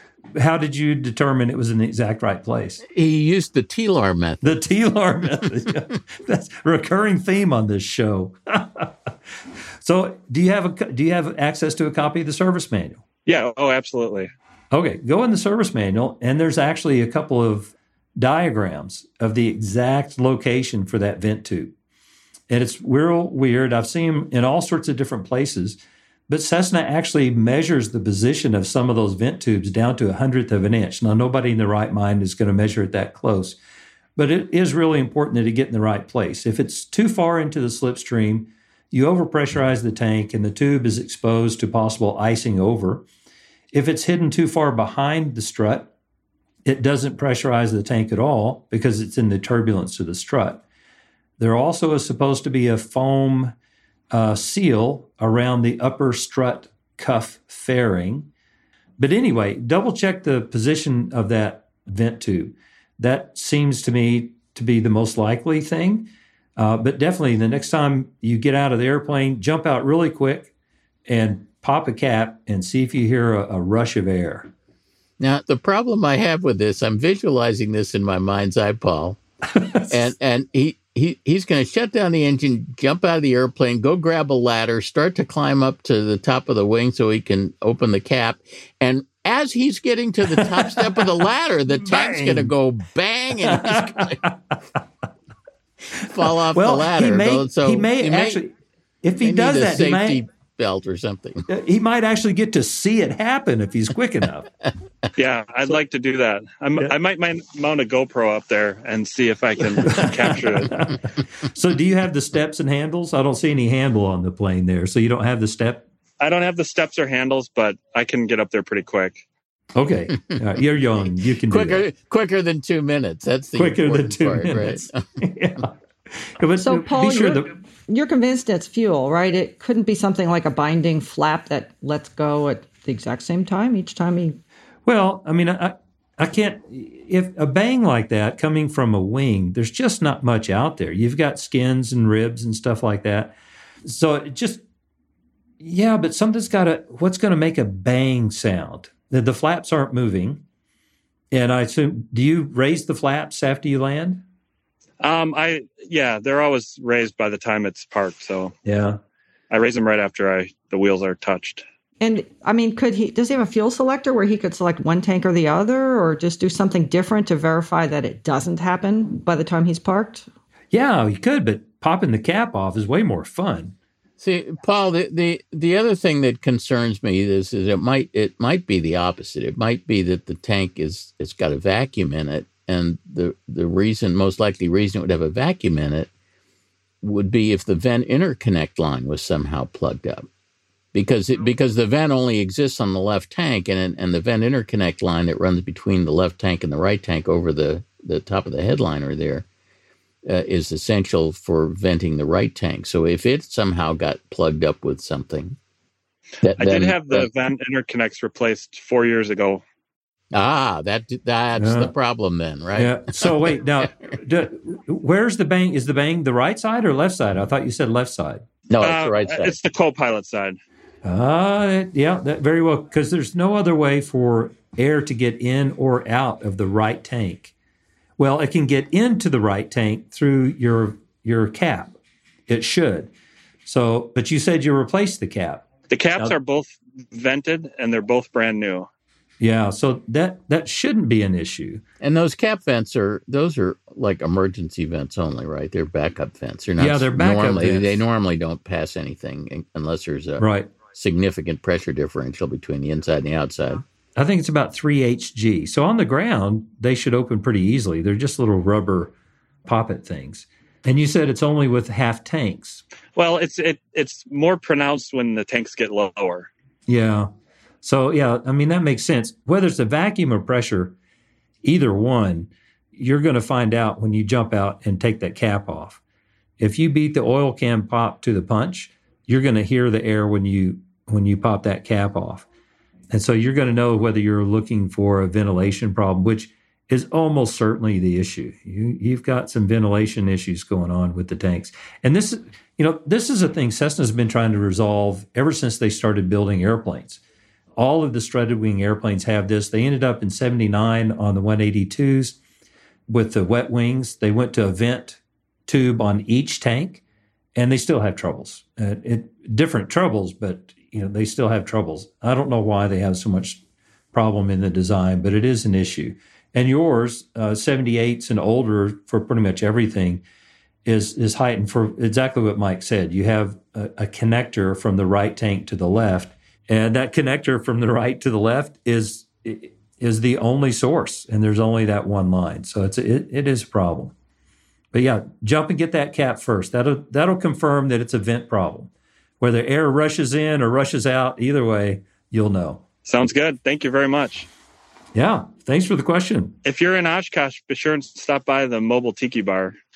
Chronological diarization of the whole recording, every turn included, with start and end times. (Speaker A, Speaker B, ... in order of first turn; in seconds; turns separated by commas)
Speaker A: 0.3-2.8, Speaker B: 2.9-4.5, Speaker A: 4.4-9.1, Speaker A: 9.8-13.0, Speaker C: 13.2-14.3, Speaker A: 14.7-21.7, Speaker A: 22.5-33.6, Speaker A: 34.1-43.0, Speaker A: 43.7-45.9, Speaker A: 46.6-50.6, Speaker A: 51.4-53.5, Speaker A: 54.1-58.3, Speaker A: 59.0-70.5, Speaker A: 71.0-74.5, Speaker B: 75.2-79.2, Speaker B: 79.8-94.2, Speaker A: 90.2-91.2, Speaker A: 91.8-92.5, Speaker A: 93.4-94.5, Speaker A: 96.0-98.5, Speaker B: 96.1-98.4, Speaker A: 99.0-100.2, Speaker B: 99.2-101.5, Speaker A: 101.5-104.5, Speaker C: 105.2-110.7, Speaker A: 109.8-115.8, Speaker C: 116.2-119.2, Speaker A: 119.7-121.8, Speaker B: 121.5-125.0, Speaker A: 123.5-127.5, Speaker D: 126.6-134.4, Speaker A: 134.8-144.6, Speaker A: 145.6-150.4, Speaker A: 151.3-154.2, Speaker C: 155.0-158.5, Speaker A: 158.6-159.0, Speaker C: 159.5-161.6, Speaker D: 162.0-170.3, Speaker A: 170.7-173.7, Speaker B: 174.2-186.1, Speaker B: 187.0-190.3, Speaker B: 190.9-199.4, Speaker B: 200.2-205.6, Speaker B: 206.4-207.3, Speaker C: 206.6-209.6, Speaker B: 210.3-213.3, Speaker A: 211.6-211.9, Speaker A: 212.7-218.5, Speaker B: 218.7-219.6, Speaker C: 218.8-220.6, Speaker A: 221.0-227.5, Speaker A: 228.2-231.9, Speaker A: 232.5-233.1, Speaker A: 233.6-236.3, Speaker C: 235.9-238.9, Speaker A: 239.4-241.8, Speaker B: 242.0-253.8, Speaker A: 246.8-248.0, Speaker A: 250.4-250.7, Speaker A: 254.2-259.1, Speaker A: 259.6-262.8, Speaker C: 263.1-266.5, Speaker A: 266.9-267.3, Speaker A: 267.8-270.9, Speaker A: 271.6-276.0, Speaker A: 276.6-282.5, Speaker A: 283.1-297.2, Speaker A: 297.8-302.4, Speaker A: 303.1-307.0, Speaker A: 307.5-313.6, Speaker A: 314.1-320.2, Speaker A: 320.8-334.1, Speaker A: 334.9-342.8, Speaker C: 343.0-344.5, Speaker A: 345.1-346.6, Speaker C: 346.6-349.8